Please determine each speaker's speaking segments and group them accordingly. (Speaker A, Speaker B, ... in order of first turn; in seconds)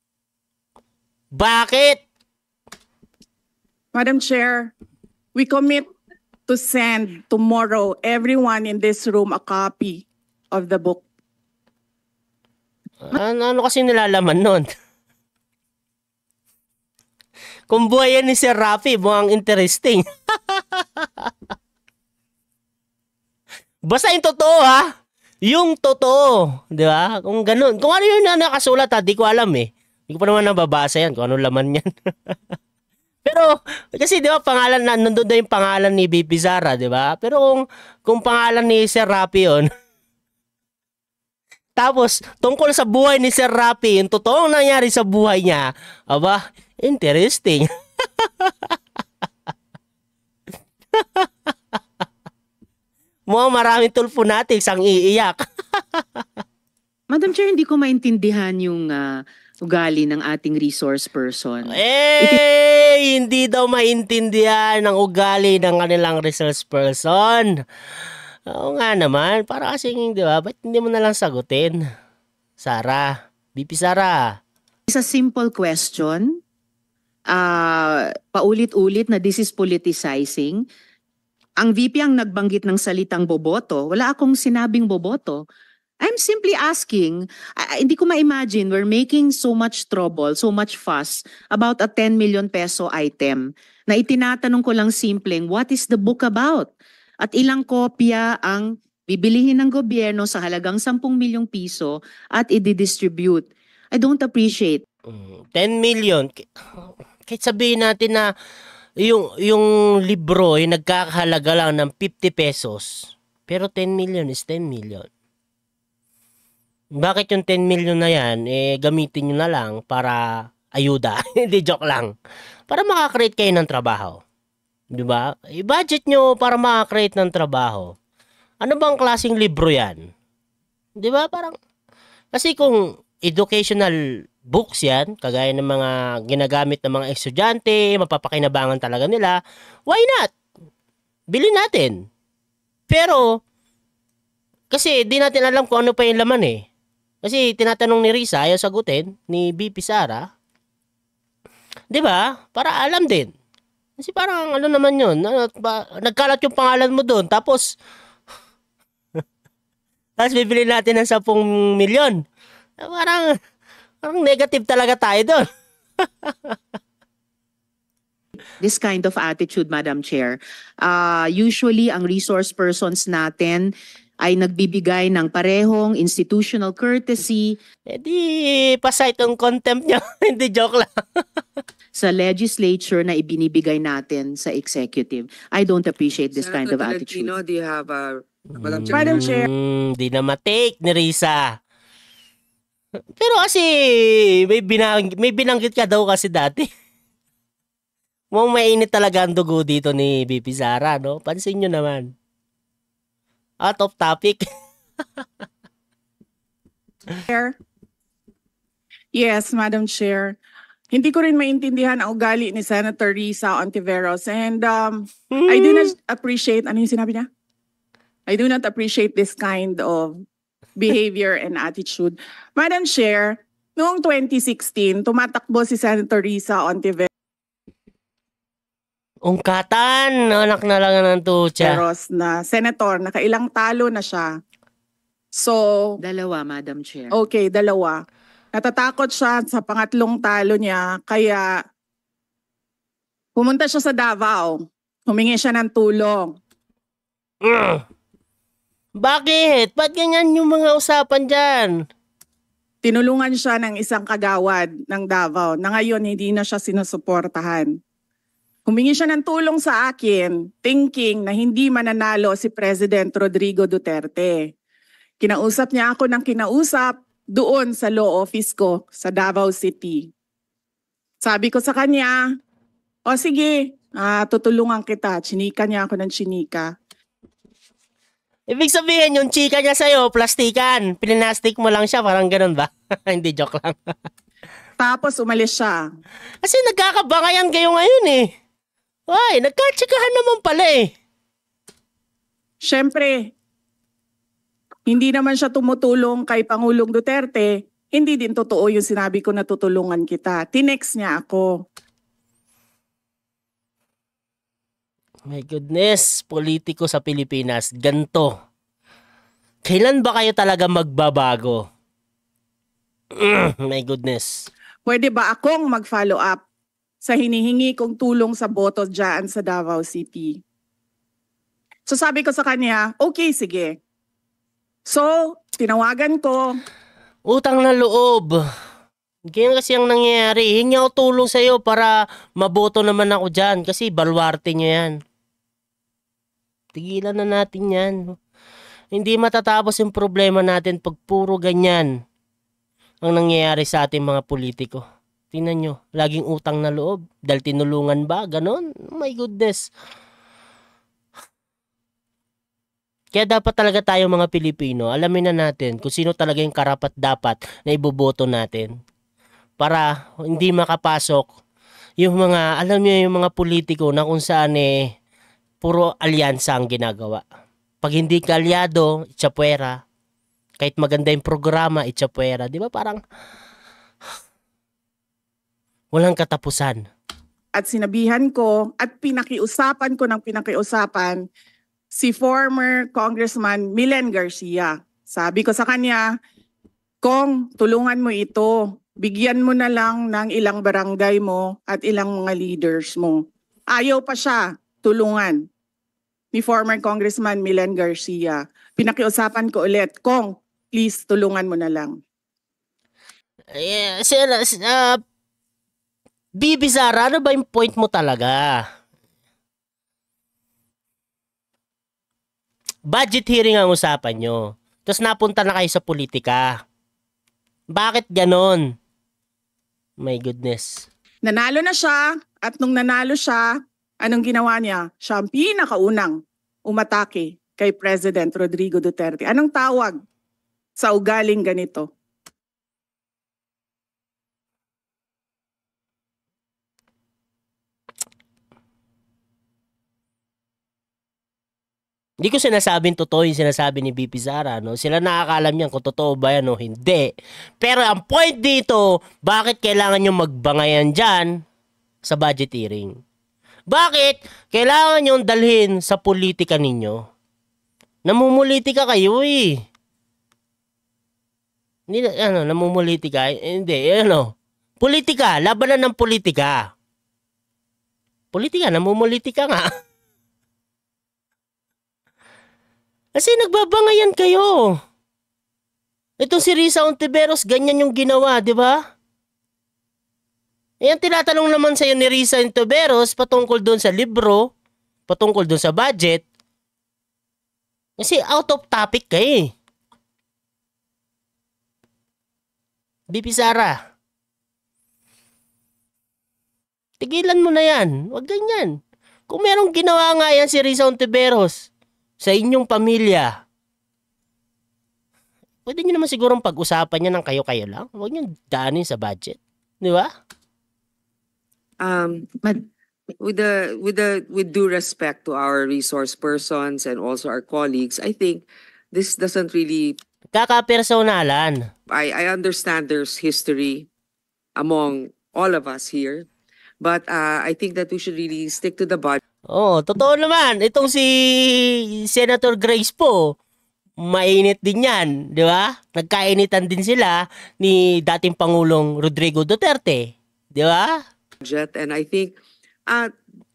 Speaker A: 1.4-2.0, 13.1-14.7, 17.7-21.3, 23.9-24.9, 25.4-32.4, 33.2-39.7, 41.8-48.8, 50.9-51.3, 53.3-56.3, 61.7-67.6, 68.5-71.8, 72.6-74.4, 105.1-108.3, 109.0-115.1, 117.0-122.1, 122.7-124.2, 124.9-128.0, 128.6-130.1, 131.0-131.6, 132.3-133.9, 134.4-140.3, 141.3-142.1, 142.9-143.4, 144.7-146.6, 147.2-150.3, 151.9-153.3, 154.0-157.8, 160.2-162.2, 162.8-163.3, 164.0-165.4, 166.0-166.6, 177.9-181.4, 188.6-191.6, 193.2-196.7, 198.3-202.1, 203.6-204.4, 215.3-215.9, 229.2-231.8, 247.4-247.8, 249.0-251.7, 278.5-283.9, 286.4-288.3, 289.1-290.9, 305.3-308.3, 309.7-311.6, 313.2-314.5, 327.3-328.4, 329.3-334.9, 336.7-338.2, 338.9-341.9, 343.0-349.7, 353.1-358.7, 359.6-361.3, 362.0-364.9, 365.6-367.2, 367.8-369.8, 370.6-373.0, 375.9-376.9, 403.6-405.0, 406.4-408.6, 412.9-416.6, 417.7-418.7, 420.0-420.9, 442.2-451.4, 452.1-453.0, 453.7-457.0, 458.1-459.6, 461.9-466.7, 468.3-469.7, 473.2-474.8, 476.2-478.8, 480.8-484.5, 485.1-486.2, 488.0-489.5, 493.1-493.8, 497.0-498.8, 499.3-501.7, 502.2-503.3, 505.7-510.1, 520.3-521.7, 529.5-533.4, 534.0-541.0
Speaker B: 3.9-4.7, 5.4-5.9, 6.5-11.0, 188.9-189.5, 207.3-207.6, 209.2-210.4, 210.9-217.3, 218.3-220.2, 220.8-227.1, 231.6-234.3, 235.4-236.0, 237.1-238.0, 238.5-241.6, 243.4-246.4, 252.8-257.7, 258.7-264.5, 265.2-270.1, 271.2-272.2, 273.1-276.7, 284.8-285.8, 292.6-293.3, 294.9-301.6, 314.9-316.4, 317.0-320.4, 321.9-323.8, 324.9-326.6, 377.6-381.2, 381.9-386.0, 387.0-395.4, 396.3-402.0, 421.2-423.5, 424.0-426.2, 426.7-430.0, 430.8-431.9
Speaker C: 57.1-62.4, 74.9-76.4, 77.3-80.6, 81.6-85.5, 86.0-96.7, 97.2-104.8, 168.6-177.6, 181.9-187.3, 236.0-237.1
Speaker D: 186.4-189.3, 511.8-512.3, 513.2-520.0, 521.9-523.9, 524.6-526.3, 526.8-529.2, 541.4-543.1